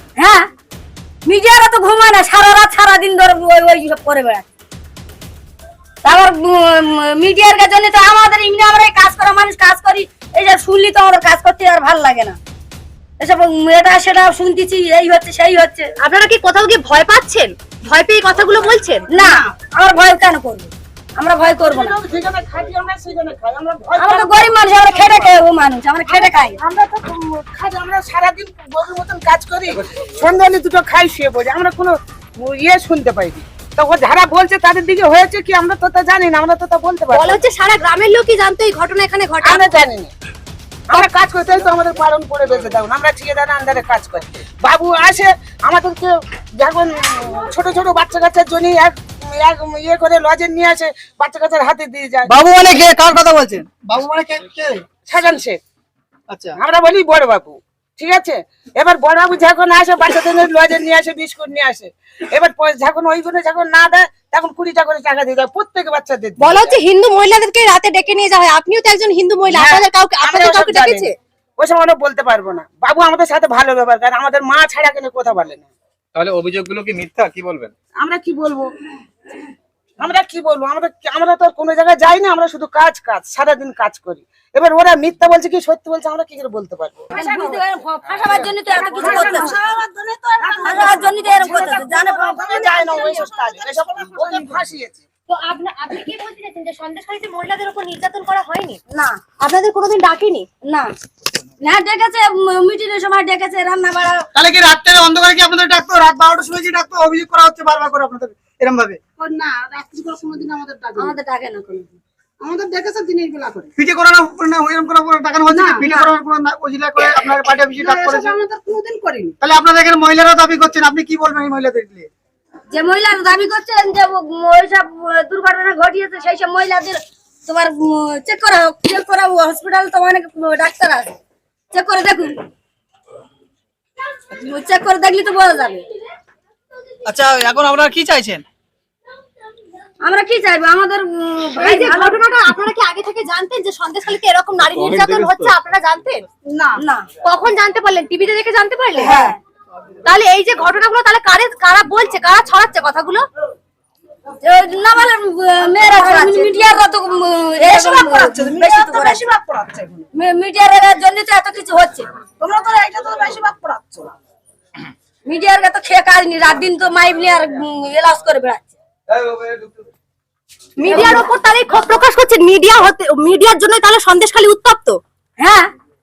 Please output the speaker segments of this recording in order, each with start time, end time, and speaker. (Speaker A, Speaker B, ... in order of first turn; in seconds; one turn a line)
Speaker A: 0.2-0.5
Speaker A: 1.2-4.5
Speaker A: 6.0-12.4
Speaker A: 13.2-15.9
Speaker B: 16.0-19.1
Speaker A: 19.1-22.0
Speaker C: 21.6-25.3
Speaker A: 24.0-26.6
Speaker C: 26.1-37.4
Speaker B: 37.1-39.6
Speaker C: 39.4-40.1
Speaker C: 40.9-52.3
Speaker D: 52.2-54.8
Speaker C: 55.0-55.6
Speaker D: 56.3-56.6
Speaker C: 56.5-66.8
Speaker B: 66.4-71.1
Speaker C: 69.5-75.7
Speaker E: 76.1-77.7
Speaker C: 78.0-78.7
Speaker C: 80.0-89.6
Speaker A: 87.1-89.6
Speaker F: 89.7-90.7
Speaker C: 90.4-95.0
Speaker A: 90.6-92.4
Speaker B: 91.5-93.3
Speaker F: 92.7-93.1
Speaker B: 95.3-98.8
Speaker A: 98.9-99.2
Speaker B: 99.4-100.5
Speaker A: 100.6-100.9
Speaker A: 101.6-104.3
Speaker D: 104.3-109.0
Speaker F: 109.2-111.1
Speaker A: 110.9-112.0
Speaker F: 112.4-113.7
Speaker D: 113.8-118.4
Speaker F: 115.5-116.0
Speaker F: 117.8-119.3
Speaker D: 119.4-122.1
Speaker A: 122.7-131.2
Speaker A: 131.7-132.4
Speaker A: 134.3-135.8
Speaker D: 137.1-138.4
Speaker A: 140.0-142.2
Speaker B: 141.5-146.2
Speaker A: 146.8-147.1
Speaker B: 147.2-149.2
Speaker A: 149.0-149.4
Speaker B: 150.0-153.2
Speaker A: 154.4-159.2
Speaker B: 155.8-156.6
Speaker B: 157.6-159.3
Speaker F: 159.3-160.0
Speaker A: 160.1-162.1
Speaker F: 162.4-164.1
Speaker A: 165.2-168.7
Speaker E: 169.3-169.7
Speaker B: 170.8-175.0
Speaker A: 170.8-171.2
Speaker A: 175.4-175.7